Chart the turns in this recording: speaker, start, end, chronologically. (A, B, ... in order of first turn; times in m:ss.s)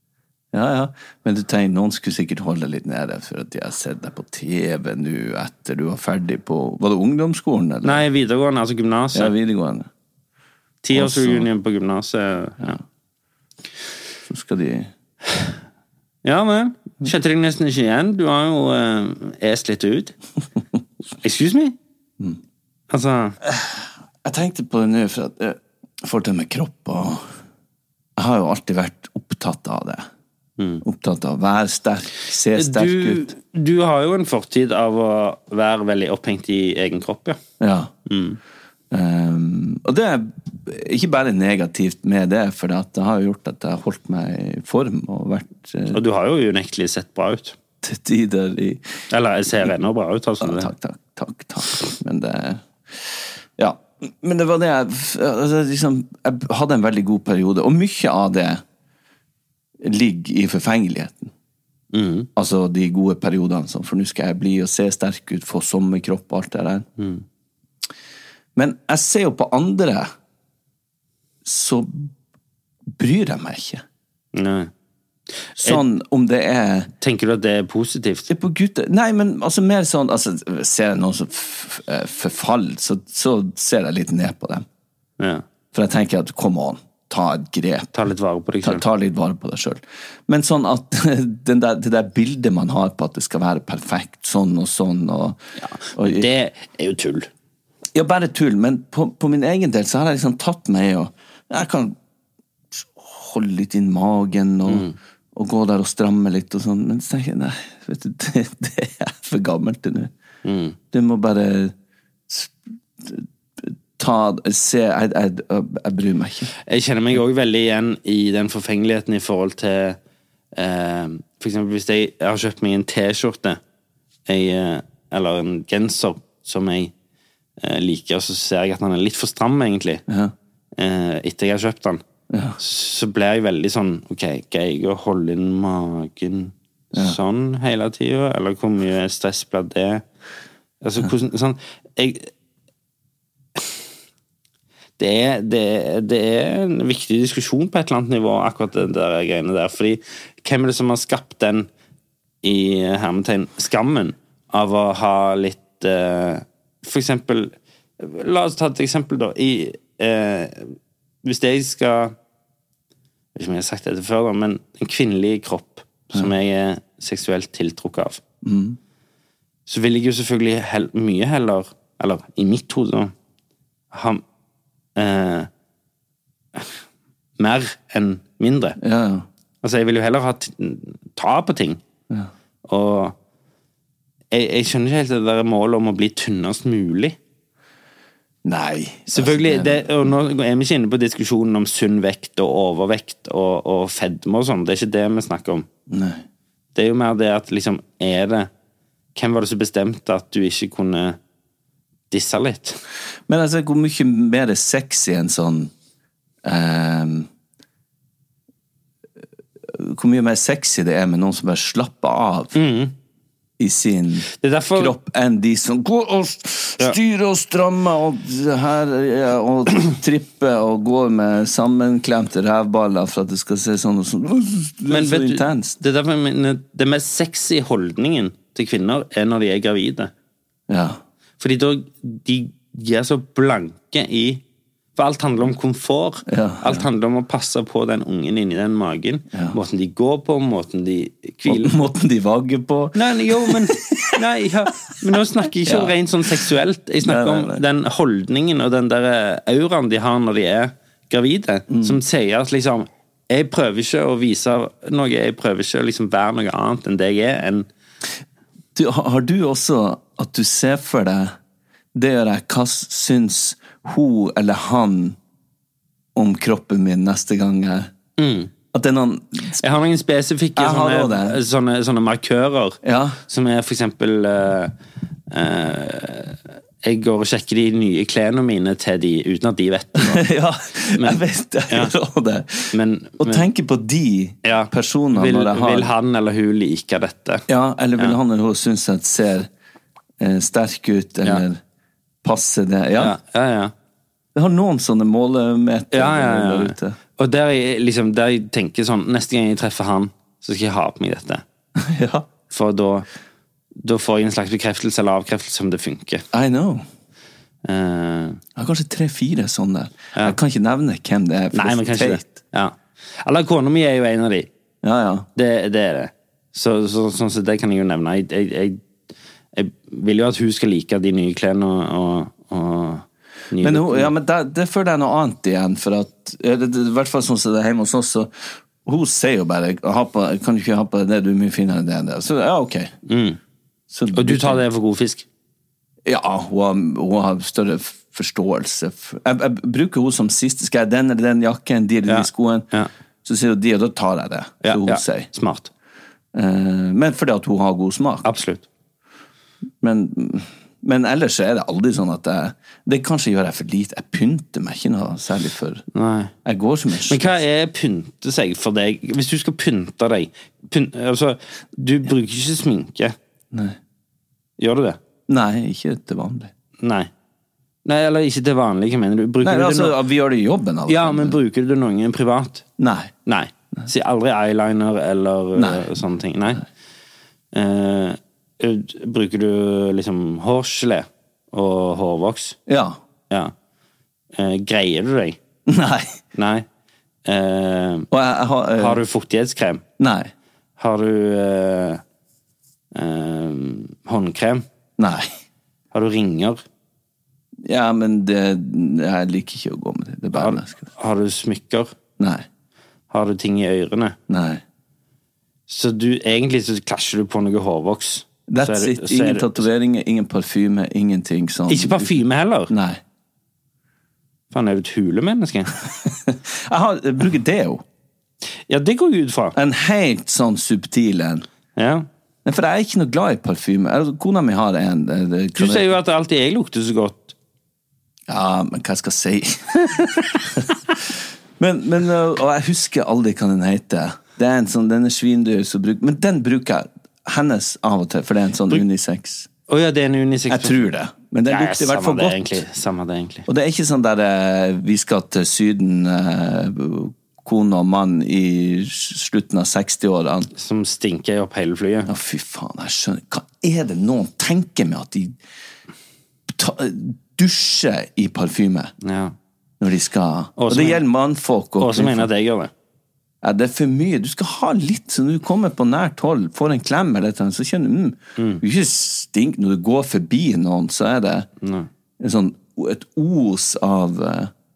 0:00.5-0:08.0 A
0:07.8-0:09.3 B
0:09.1-0:09.9 A
0:10.8-0:12.8 B
0:10.9-0:11.5 A
0:14.3-0:14.9 A
0:16.2-0:20.2 B
0:21.2-0:21.8 B
0:22.9-0:23.4 B
0:23.4-0:27.3 A
0:28.2-0:30.1 A
0:30.6-0:30.8 B
0:30.8-0:33.3 A
0:32.6-0:37.4 B
0:37.6-0:37.9 A
0:38.1-0:38.4 B
0:38.9-0:46.0 A
0:45.9-0:47.6 B
0:47.8-0:48.9 A
0:49.1-0:50.7 B
0:50.4-0:58.6 A
0:59.8-1:01.3 A
1:01.9-1:02.3 B
1:02.4-1:06.9 A
1:07.0-1:07.2 B
1:08.6-1:10.1 A
1:11.4-1:12.1 A
1:12.9-1:13.8 A
1:14.3-1:14.7 B
1:15.4-1:15.8 B
1:15.6-1:16.9 A
1:17.0-1:18.3 B
1:18.3-1:24.6 A
1:25.2-1:25.4 B
1:25.7-1:27.9 A
1:27.9-1:28.8 B
1:28.6-1:35.4 A
1:35.6-1:37.3 B
1:35.9-1:36.3 A
1:37.9-1:42.0 A
1:42.7-1:50.1 A
1:44.7-1:45.0 B
1:50.4-1:50.8 B
1:50.9-1:51.8 A
1:52.3-1:56.5 A
1:56.7-2:00.0 B
2:00.6-2:03.6 B
2:04.3-2:06.9 B
2:07.6-2:10.0 B
2:10.1-2:10.3 A
2:10.8-2:12.0 B
2:12.3-2:12.6 A
2:12.6-2:20.0 B
2:20.8-2:22.3 B
2:25.0-2:31.7 B
2:32.4-2:42.2 B
2:43.4-2:48.2 B
2:48.4-2:48.8 A
2:49.7-2:53.1 B
2:53.9-2:54.2 B
2:55.0-2:55.5 B
2:57.4-2:58.8 B
2:58.8-2:59.3 A
2:59.6-3:01.8 B
3:02.7-3:03.2 B
3:04.3-3:07.2 B
3:08.4-3:10.1 A
3:09.1-3:15.7 B
3:15.9-3:16.2 A
3:16.8-3:18.5 B
3:19.2-3:21.2 B
3:22.1-3:22.8 B
3:23.3-3:25.7 A
3:26.4-3:27.3 A
3:29.7-3:32.6 A
3:32.5-3:32.9 B
3:33.6-3:45.8 A
3:34.4-3:35.0 B
3:44.9-3:50.1 B
3:50.7-3:51.0 A
3:51.4-3:54.4 B
3:55.0-4:01.8 B
3:56.3-3:56.9 A
4:01.4-4:04.2 A
4:03.0-4:17.7 B
4:04.8-4:06.5 A
4:07.0-4:07.6 A
4:11.7-4:12.0 A
4:18.8-4:21.4 A
4:21.9-4:25.2 A
4:26.2-4:27.9 A
4:28.2-4:28.5 B
4:28.7-4:29.6 A
4:29.6-4:34.7 B
4:30.6-4:31.4 A
4:32.8-4:33.2 A
4:35.3-4:40.2 B
4:40.0-4:45.9 A
4:41.0-4:41.9 B
4:42.7-4:43.5 B
4:44.4-4:47.4 B
4:47.5-4:49.5 A
4:50.2-4:51.6 A
4:52.2-4:53.2 A
4:53.0-4:53.7 B
4:54.3-4:57.0 A
4:55.9-5:01.4 B
5:01.8-5:02.3 A
5:02.5-5:03.1 B
5:03.8-5:06.2 B
5:06.3-5:06.9 A
5:07.6-5:08.4 B
5:08.6-5:12.4 A
5:11.5-5:14.5 B
5:14.8-5:15.3 A
5:15.4-5:18.8 B
5:19.5-5:24.1 B
5:23.6-5:32.9 A
5:33.1-5:33.4 B
5:33.9-5:34.6 A
5:34.1-5:35.3 B
5:36.0-5:42.7 A
5:42.1-5:42.9 B
5:43.2-5:45.3 A
5:44.6-5:45.7 B
5:46.3-5:48.3 A
5:48.2-5:48.6 B
5:49.8-5:55.8 A
5:55.9-5:56.3 B
5:56.4-5:57.4 A
5:57.1-6:03.2 B
6:03.5-6:03.8 A
6:04.6-6:05.0 B
6:05.3-6:06.5 A
6:06.8-6:07.1 B
6:07.8-6:10.0 B
6:09.4-6:11.4 A
6:10.9-6:12.6 B
6:12.8-6:13.1 A
6:13.3-6:16.6 B
6:15.6-6:15.9 A
6:17.5-6:22.6 B
6:22.7-6:23.0 A
6:24.3-6:25.4 B
6:25.7-6:26.2 A
6:26.3-6:26.7 B
6:27.2-6:28.1 B
6:28.1-6:29.0 A
6:28.8-6:29.8 B
6:30.0-6:30.3 A
6:30.8-6:32.0 B
6:32.9-6:34.6 B
6:35.0-6:35.3 A
6:35.9-6:36.6 B
6:37.6-6:40.9 A
6:40.3-6:41.9 B
6:42.2-6:42.5 A
6:43.1-6:44.2 B
6:44.3-6:44.6 A
6:45.7-6:49.7 B
6:48.5-6:52.2 A
6:51.7-6:52.7 B
6:52.7-6:53.0 A
6:54.5-6:55.8 B
6:56.0-6:57.8 A
6:58.7-6:59.6 B
6:59.6-7:01.5 A
7:01.8-7:02.1 B
7:02.4-7:05.9 A
7:05.6-7:07.4 B
7:08.3-7:19.5 A
7:19.7-7:20.8 B
7:20.5-7:22.6 A
7:21.5-7:23.5 B
7:23.5-7:30.5 A
7:30.6-7:32.1 B
7:32.1-7:35.4 A
7:36.5-7:38.9 A
7:39.0-7:39.4 B
7:39.8-7:42.3 A
7:40.6-7:41.0 B
7:41.8-7:42.7 B
7:43.4-7:51.5 A
7:48.4-7:48.6 B
7:51.6-7:51.9 B
7:52.2-7:54.5 A